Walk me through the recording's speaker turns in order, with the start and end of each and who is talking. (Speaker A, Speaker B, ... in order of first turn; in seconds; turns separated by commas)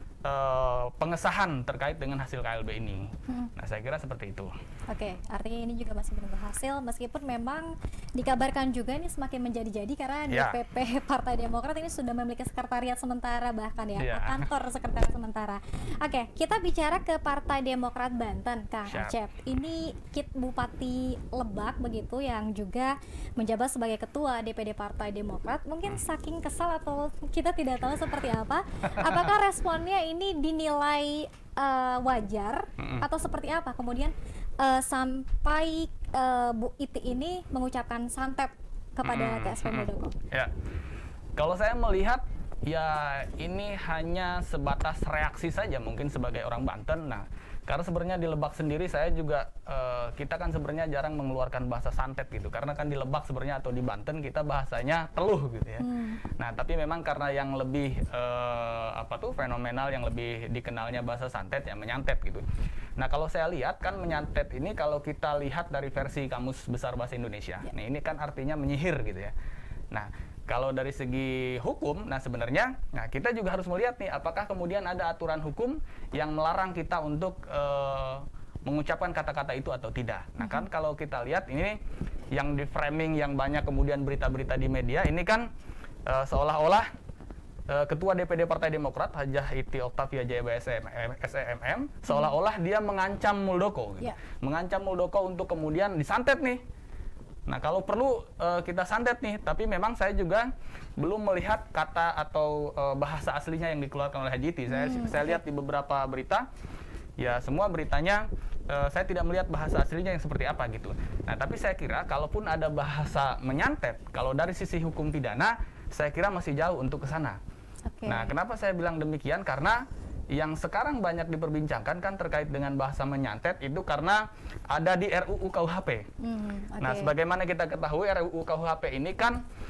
Speaker A: 0.2-4.5, Speaker B: 4.9-40.1, Speaker A: 10.3-10.6, Speaker A: 14.0-14.5, Speaker A: 18.9-19.1, Speaker A: 32.8-33.0, Speaker A: 39.0-40.5, Speaker A: 41.4-55.9, Speaker B: 55.8-56.2, Speaker A: 56.4-62.4, Speaker A: 63.0-69.3, Speaker A: 69.9-81.8, Speaker B: 80.4-80.7, Speaker A: 82.3-85.5, Speaker A: 86.0-86.9, Speaker A: 87.7-96.6, Speaker B: 92.1-92.3, Speaker A: 97.5-106.5, Speaker B: 104.7-105.4, Speaker A: 107.2-117.4, Speaker B: 117.9-118.3, Speaker A: 118.1-126.1, Speaker B: 126.2-127.1, Speaker A: 126.8-129.4